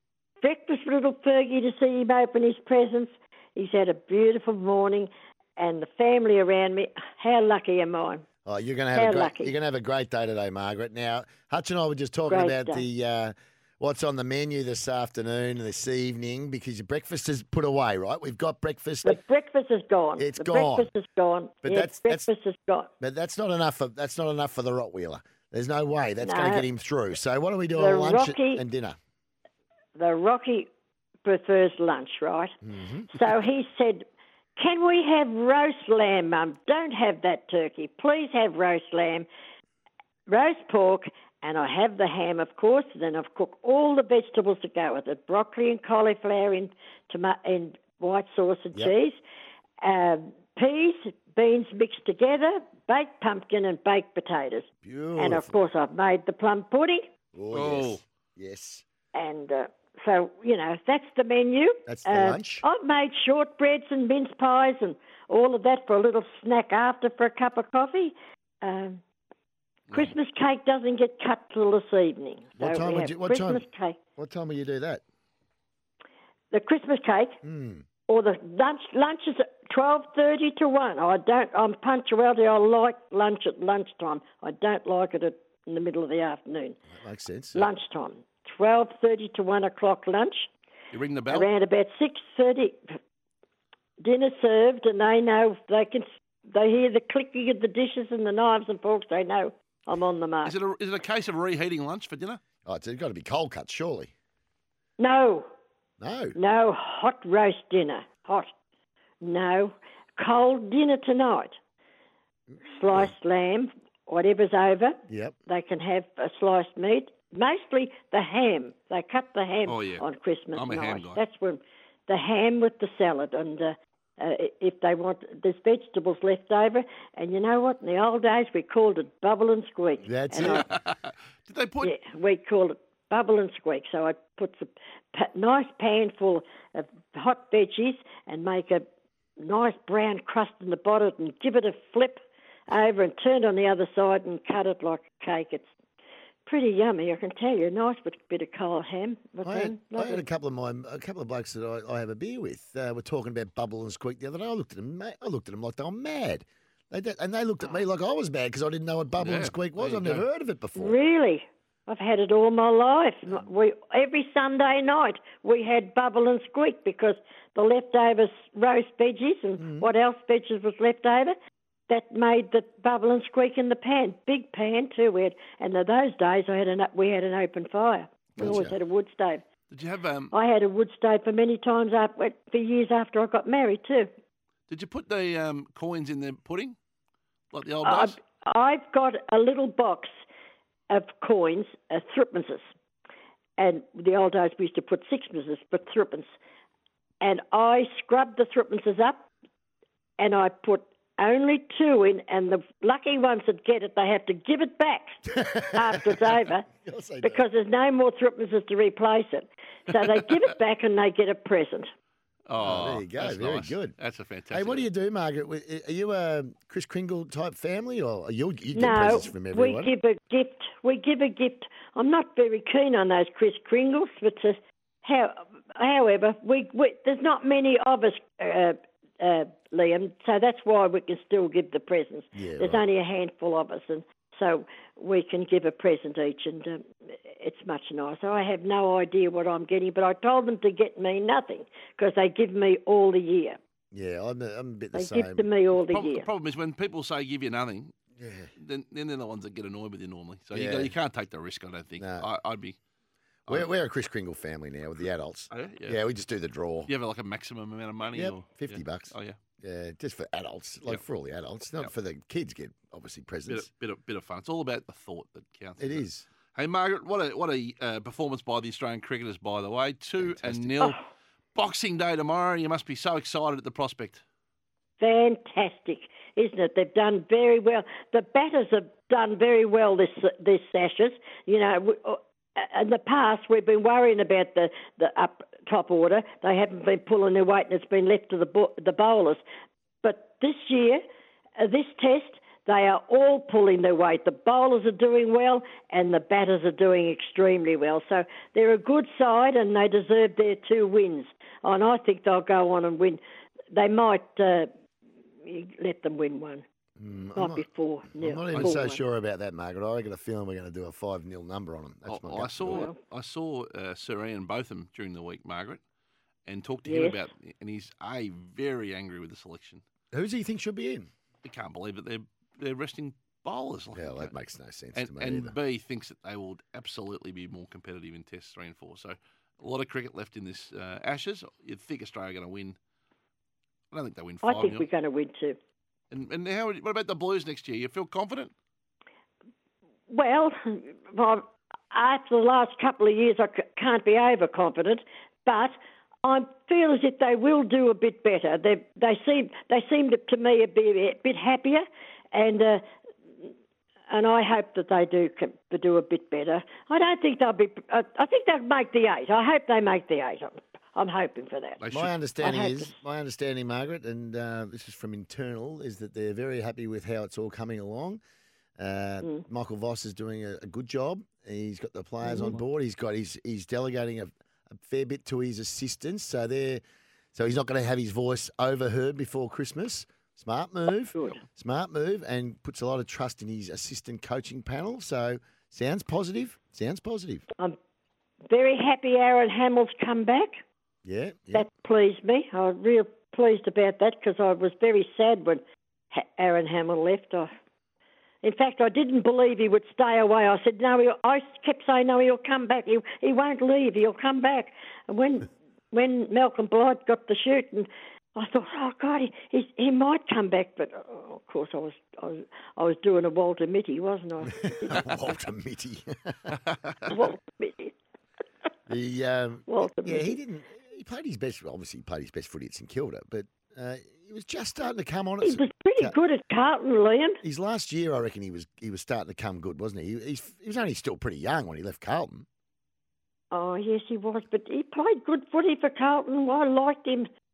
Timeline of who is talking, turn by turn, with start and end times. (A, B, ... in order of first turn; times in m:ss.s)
0:00.4-0:08.2 A
0:08.4-0:19.2 B
0:08.9-0:09.5 A
0:12.3-0:12.9 A
0:19.0-0:22.9 A
0:20.2-0:20.9 B
0:21.6-0:22.3 B
0:23.0-0:29.0 B
0:26.2-0:26.7 A
0:27.8-0:28.6 A
0:30.0-0:30.7 A
0:31.2-0:32.5 A
0:32.6-0:33.2 B
0:33.1-0:34.1 A
0:34.6-0:39.3 A
0:40.3-0:49.2 A
0:49.8-0:57.0 A
0:54.8-0:55.6 B
0:57.3-0:58.8 B
0:57.5-0:58.0 C
0:59.1-1:09.0 A
1:01.9-1:02.7 B
1:09.9-1:14.0 A
1:12.6-1:15.0 B
1:16.5-1:17.4 A
1:17.4-1:17.8 B
1:18.1-1:26.8 A
1:26.9-1:27.7 B
1:27.5-1:30.5 A
1:30.9-1:31.5 C
1:31.3-1:32.8 A
1:34.0-1:40.5 A
1:40.4-1:42.4 C
1:42.6-1:44.1 B
1:45.0-1:45.5 A
1:46.0-1:46.4 B
1:46.4-1:48.5 A
1:49.2-1:51.6 A
1:52.7-2:10.7 A
1:52.9-1:53.1 B
1:55.1-1:55.4 B
1:59.7-2:01.2 C
2:10.0-2:10.7 B
2:10.4-2:12.0 C
2:11.8-2:18.8 A
2:19.4-2:25.7 A
2:26.4-2:30.2 A
2:29.4-2:41.0 B
2:39.2-2:40.2 C
2:40.8-2:51.3 A
2:49.6-2:49.9 B
2:51.9-2:59.4 A
2:58.4-2:58.8 B
2:59.7-3:00.3 C
3:00.3-3:04.1 A
3:04.7-3:06.8 C
3:07.5-3:08.2 C
3:07.8-3:10.1 A
3:10.9-3:12.7 A
3:13.6-3:16.3 A
3:17.2-3:19.3 A
3:20.2-3:26.7 A
3:25.3-3:27.5 B
3:27.2-3:31.9 A
3:32.5-3:34.8 C
3:32.6-3:34.0 B
3:34.5-3:39.9 B
3:38.7-4:03.6 A
3:52.3-3:52.8 B
4:03.9-4:05.4 B
4:04.9-4:06.2 A
4:05.8-4:07.9 C
4:08.2-4:08.5 B
4:08.6-4:12.8 C
4:10.5-4:10.9 B
4:12.0-4:12.3 B
4:13.5-4:16.9 B
4:15.5-4:16.0 C
4:16.9-4:19.4 C
4:18.1-4:23.7 B
4:23.5-4:31.0 C
4:25.8-4:26.3 B
4:30.2-4:30.7 B
4:31.5-4:34.2 C
4:35.0-4:49.4 A
4:50.0-4:51.0 A
4:51.6-5:03.2 A
5:03.7-5:04.7 A
5:05.4-5:06.6 A
5:07.0-5:12.9 B
5:07.4-5:09.0 A
5:12.1-5:15.8 C
5:12.6-5:13.0 A
5:16.5-5:19.8 C
5:16.8-5:17.2 A
5:20.1-5:21.1 B
5:21.4-5:24.3 C
5:23.9-5:25.5 B
5:25.0-5:32.8 C
5:33.9-5:34.9 C
5:34.4-5:35.6 A
5:36.1-5:38.5 C
5:40.1-5:52.8 A
5:54.1-6:01.8 A
6:01.8-6:02.1 C
6:01.9-6:08.2 B
6:02.4-6:02.9 A
6:08.8-6:16.8 B
6:12.2-6:12.6 A
6:17.4-6:27.5 B
6:21.1-6:21.4 A
6:28.5-6:30.5 A
6:31.0-6:31.6 B
6:31.5-6:35.6 A
6:36.1-6:37.5 A
6:38.4-6:55.1 A
6:54.9-6:56.6 B
6:57.1-6:57.9 A
6:58.9-7:06.2 B
6:59.7-7:00.4 A
7:05.4-7:07.4 A
7:07.4-7:12.5 B
7:13.5-7:17.3 A